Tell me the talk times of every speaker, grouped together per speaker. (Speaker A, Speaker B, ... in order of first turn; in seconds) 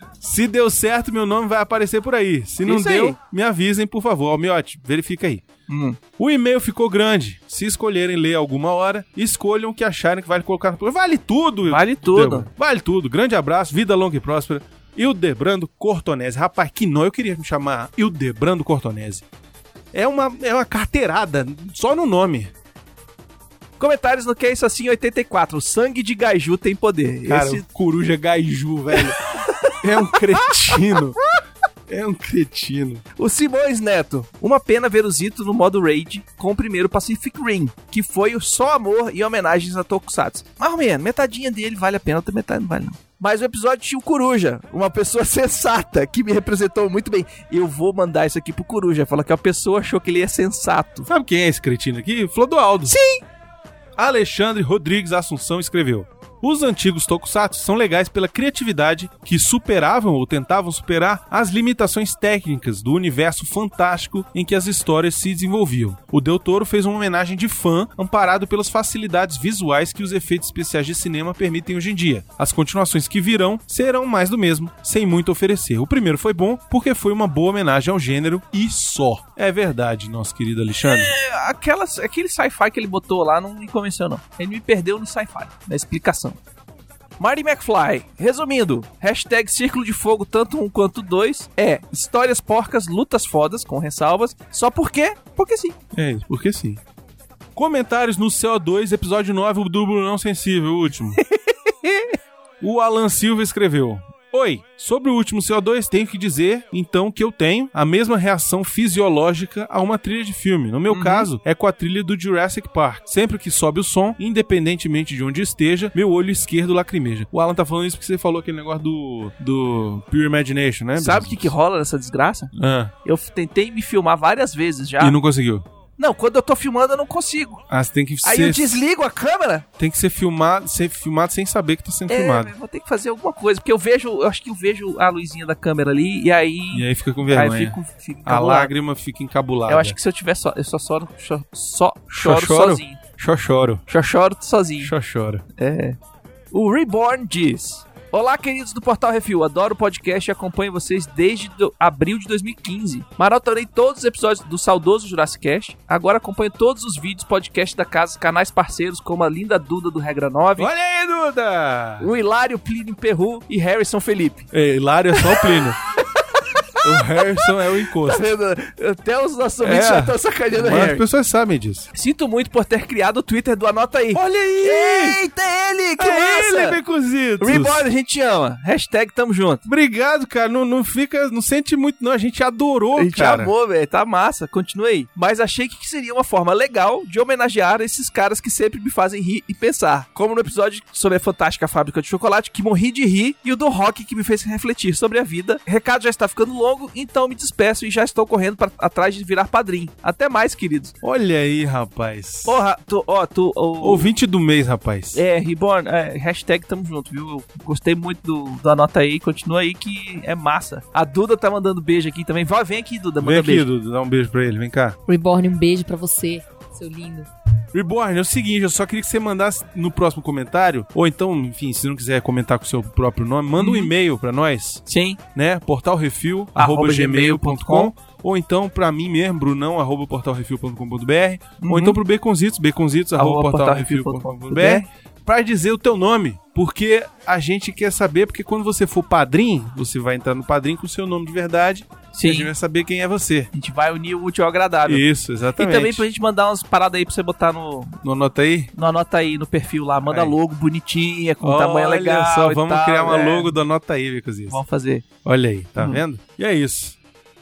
Speaker A: 0.2-5.4, 6.2-19.2, 19.9-22.5, 27.3-31.2, 31.9-33.0, 51.1-52.9, 54.0-81.1, 95.9-96.8, 97.5-101.2, 102.6-121.5, 122.5-122.9, 125.0-125.7, 127.7-128.8, 129.8-132.5, 136.7-140.0, 142.1-143.8, 144.8-145.4, 160.6-162.1, 164.5-165.8, 166.8-168.2, 169.6-171.9, 174.1-175.2, 176.0-177.9, 179.7-183.5, 201.0-202.6, 203.8-205.2, 213.2-215.0, 217.7-243.5, 244.9-246.0, 248.0-248.7, 250.1-250.4, 251.4-254.6, 255.2-257.0
Speaker B: 2.6-3.1, 5.7-6.0, 11.7-12.5, 23.8-27.6, 28.9-31.3, 33.1-51.1, 52.9-53.2, 80.8-86.4, 87.2-95.8, 101.2-102.1, 110.9-111.3, 121.0-122.5, 123.0-125.2, 126.0-127.6, 128.2-129.7, 132.1-138.7, 139.7-143.0, 143.9-144.9, 145.5-146.0, 146.5-160.7, 162.0-164.5, 165.1-165.6, 166.2-171.0, 171.9-176.8, 177.4-179.6, 182.9-200.9, 202.4-204.1, 205.1-213.7, 223.6-223.9, 224.8-225.2, 226.6-227.9, 231.6-232.0, 233.2-234.8, 242.1-242.5, 243.5-248.0, 248.7-253.5, 254.5-255.1, 255.8-256.0
Speaker C: 215.1-217.3